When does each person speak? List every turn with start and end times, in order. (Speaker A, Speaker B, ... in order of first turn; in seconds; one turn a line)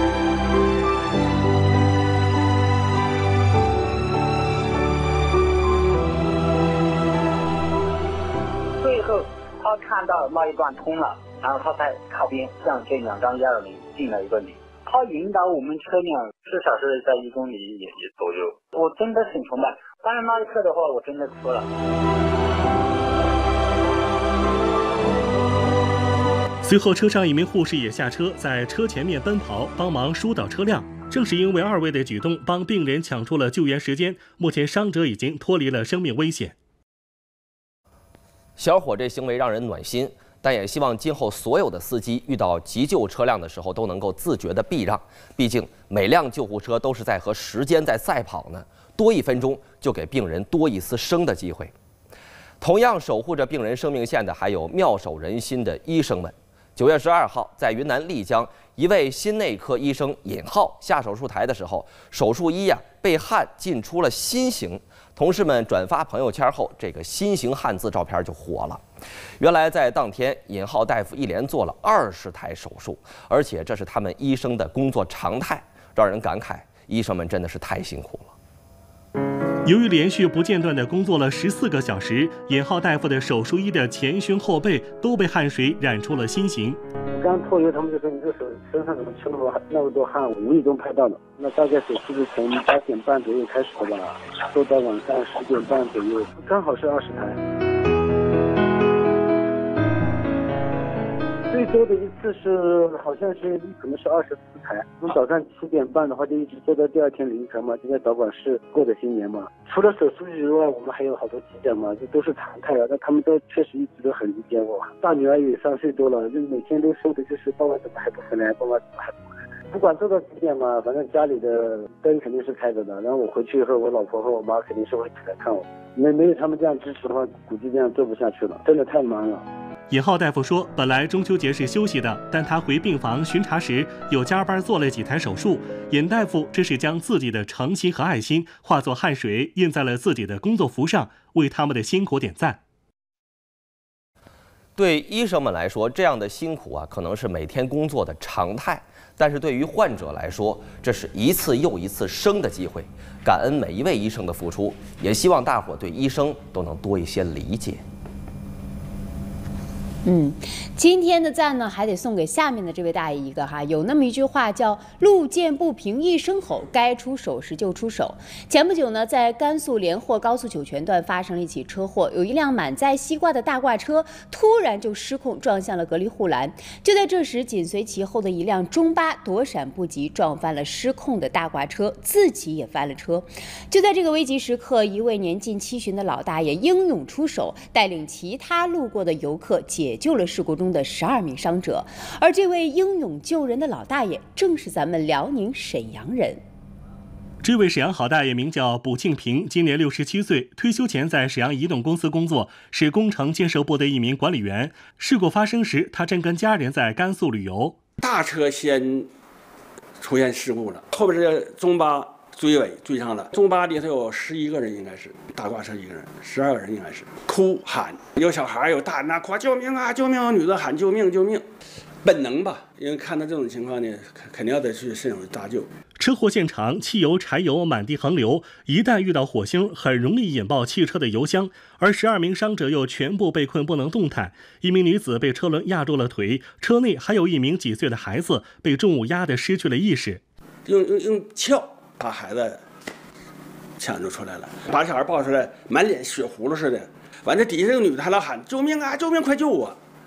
Speaker A: 8.8-21.7
Speaker B: 26.6-36.5
Speaker C: 38.6-51.7
Speaker C: 52.6-68.8
Speaker C: 69.4-78.3
Speaker B: 79.7-86.8
Speaker D: 87.1-97.4
Speaker D: 101.5-129.4
Speaker B: 129.9-142.6
Speaker C: 144.8-157.8
Speaker E: 160.1-196.4
Speaker B: 197.4-207.8
Speaker F: 208.0-209.1
Speaker F: 210.0-221.4
Speaker F: 222.0-225.7
Speaker B: 226.0-240.2
Speaker F: 240.7-242.6
Speaker F: 243.8-249.8